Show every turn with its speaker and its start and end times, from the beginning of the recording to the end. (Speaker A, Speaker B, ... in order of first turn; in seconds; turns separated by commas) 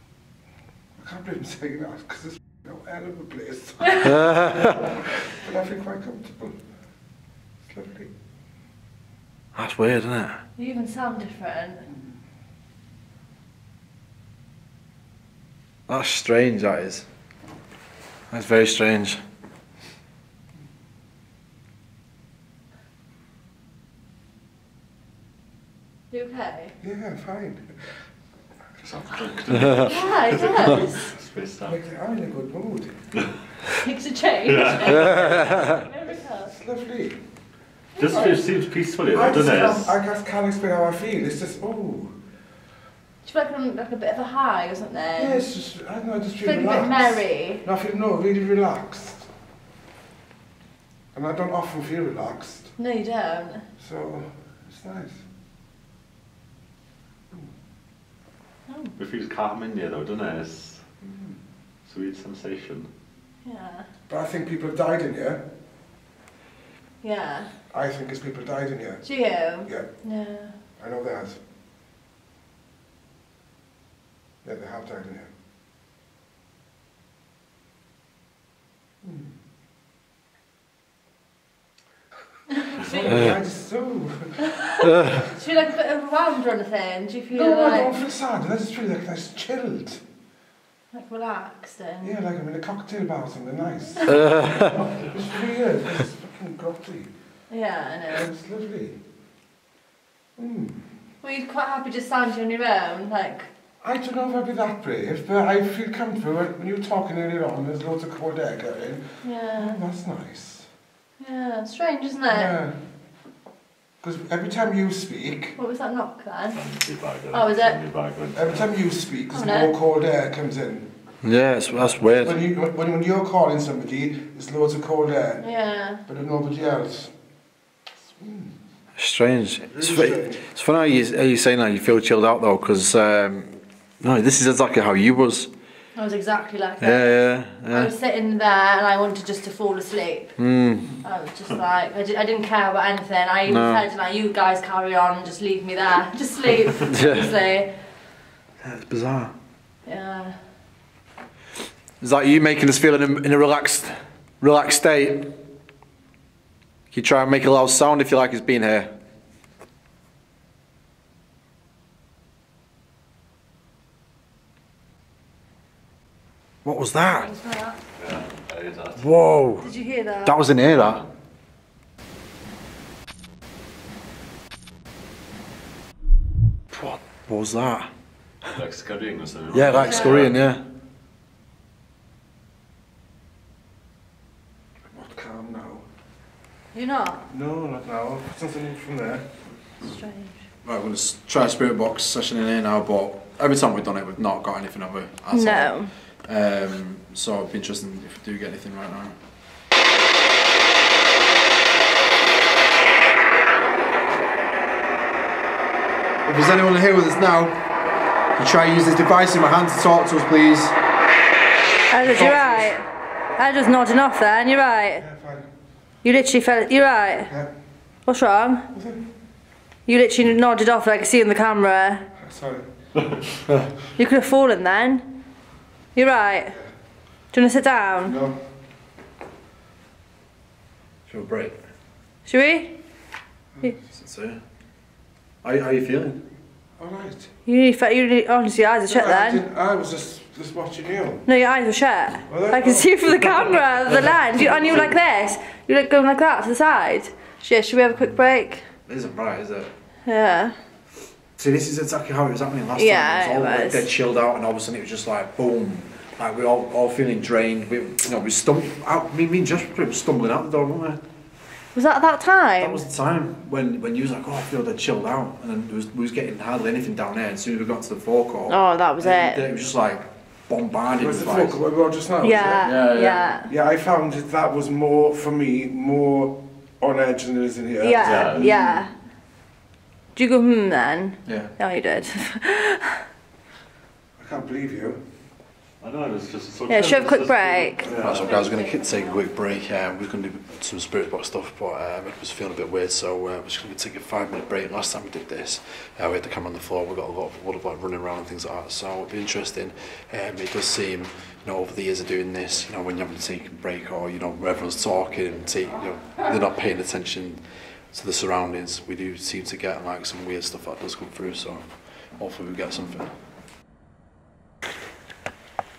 Speaker A: 1.0-6.6, Speaker B: 4.0-4.9, Speaker A: 7.7-8.1, Speaker B: 9.6-10.4, Speaker C: 10.6-11.9, Speaker B: 15.9-17.1, Speaker B: 18.3-19.2, Speaker C: 26.1-26.8, Speaker A: 26.8-28.0, Speaker D: 28.8-31.8, Speaker B: 29.5-29.9, Speaker C: 29.8-31.2, Speaker A: 31.6-33.0, Speaker C: 33.8-36.5, Speaker D: 34.5-35.5, Speaker B: 34.9-35.8, Speaker A: 35.0-37.2, Speaker C: 38.0-38.4, Speaker D: 38.0-40.0, Speaker A: 38.1-38.4, Speaker A: 39.1-42.1, Speaker C: 43.2-45.4, Speaker A: 45.2-49.3, Speaker C: 46.4-47.6, Speaker A: 51.1-52.7, Speaker C: 52.8-53.7, Speaker A: 53.8-55.2, Speaker C: 58.7-58.9, Speaker D: 59.0-60.8, Speaker A: 61.0-61.4, Speaker D: 61.9-62.9, Speaker C: 63.5-63.9, Speaker A: 64.1-65.4, Speaker C: 67.0-67.5, Speaker A: 67.7-69.0, Speaker C: 69.0-70.5, Speaker A: 70.8-71.4, Speaker A: 74.4-75.3, Speaker A: 79.0-79.3, Speaker C: 82.7-83.3, Speaker A: 82.8-84.5, Speaker B: 83.1-83.4, Speaker C: 84.4-87.9, Speaker B: 84.8-85.3, Speaker A: 87.3-90.0, Speaker C: 90.9-92.2, Speaker A: 92.0-97.1, Speaker B: 94.1-94.8, Speaker D: 94.7-95.2, Speaker C: 97.5-98.3, Speaker A: 98.1-99.0, Speaker A: 100.4-100.8, Speaker C: 101.2-103.5, Speaker A: 103.8-110.7, Speaker C: 109.2-109.8, Speaker C: 111.2-112.5, Speaker A: 112.3-112.8, Speaker A: 114.0-115.5, Speaker C: 115.6-116.6, Speaker D: 116.5-118.7, Speaker C: 117.3-117.8, Speaker A: 118.3-120.9, Speaker C: 119.3-119.7, Speaker B: 121.2-122.5, Speaker A: 122.2-125.4, Speaker C: 125.4-126.0, Speaker A: 126.1-127.1, Speaker A: 128.2-128.5, Speaker B: 129.0-135.5, Speaker A: 129.7-130.4, Speaker C: 136.0-140.4, Speaker B: 136.8-137.9, Speaker B: 140.4-141.0, Speaker C: 141.0-147.7, Speaker B: 143.5-143.8, Speaker B: 146.8-147.3, Speaker B: 148.6-149.3, Speaker C: 149.8-150.4, Speaker B: 152.0-155.3, Speaker B: 156.9-158.9, Speaker B: 166.6-167.3, Speaker C: 167.1-167.8, Speaker D: 168.0-169.1, Speaker B: 169.0-169.7, Speaker C: 169.6-170.4, Speaker B: 170.2-171.1, Speaker B: 176.7-177.9, Speaker D: 178.5-180.4, Speaker B: 179.5-180.6, Speaker C: 179.8-180.2, Speaker A: 184.9-185.8, Speaker C: 186.7-187.3, Speaker A: 187.3-189.3, Speaker C: 189.8-190.4, Speaker B: 190.6-199.2, Speaker C: 195.3-195.9, Speaker B: 206.2-207.7, Speaker B: 208.4-210.8, Speaker C: 211.9-215.1, Speaker B: 212.0-212.7, Speaker A: 212.1-212.7, Speaker A: 215.0-215.5, Speaker C: 216.0-217.3, Speaker C: 218.1-218.7, Speaker A: 218.7-219.0, Speaker C: 219.9-222.1, Speaker A: 222.2-222.7, Speaker C: 224.0-225.1, Speaker C: 225.9-226.6, Speaker C: 227.3-228.2, Speaker A: 228.1-228.4, Speaker B: 231.1-231.6, Speaker C: 232.3-232.8, Speaker B: 234.0-234.4, Speaker B: 235.4-236.2, Speaker A: 236.8-237.3, Speaker C: 237.5-239.4, Speaker A: 238.9-241.2, Speaker C: 241.3-248.6, Speaker A: 242.3-242.9, Speaker A: 243.9-244.9, Speaker B: 244.6-244.9, Speaker B: 248.9-249.7, Speaker C: 250.1-250.6, Speaker B: 251.4-261.0, Speaker C: 252.8-253.9, Speaker C: 261.8-262.8, Speaker B: 262.6-271.6, Speaker C: 268.5-269.4, Speaker A: 270.9-272.8, Speaker C: 272.2-273.5, Speaker B: 272.6-273.2, Speaker A: 273.5-278.4, Speaker C: 277.8-278.9, Speaker D: 278.0-278.8, Speaker C: 280.1-283.1, Speaker B: 281.3-281.5, Speaker A: 284.2-285.0, Speaker D: 285.8-288.4, Speaker C: 286.7-289.2, Speaker B: 288.0-313.1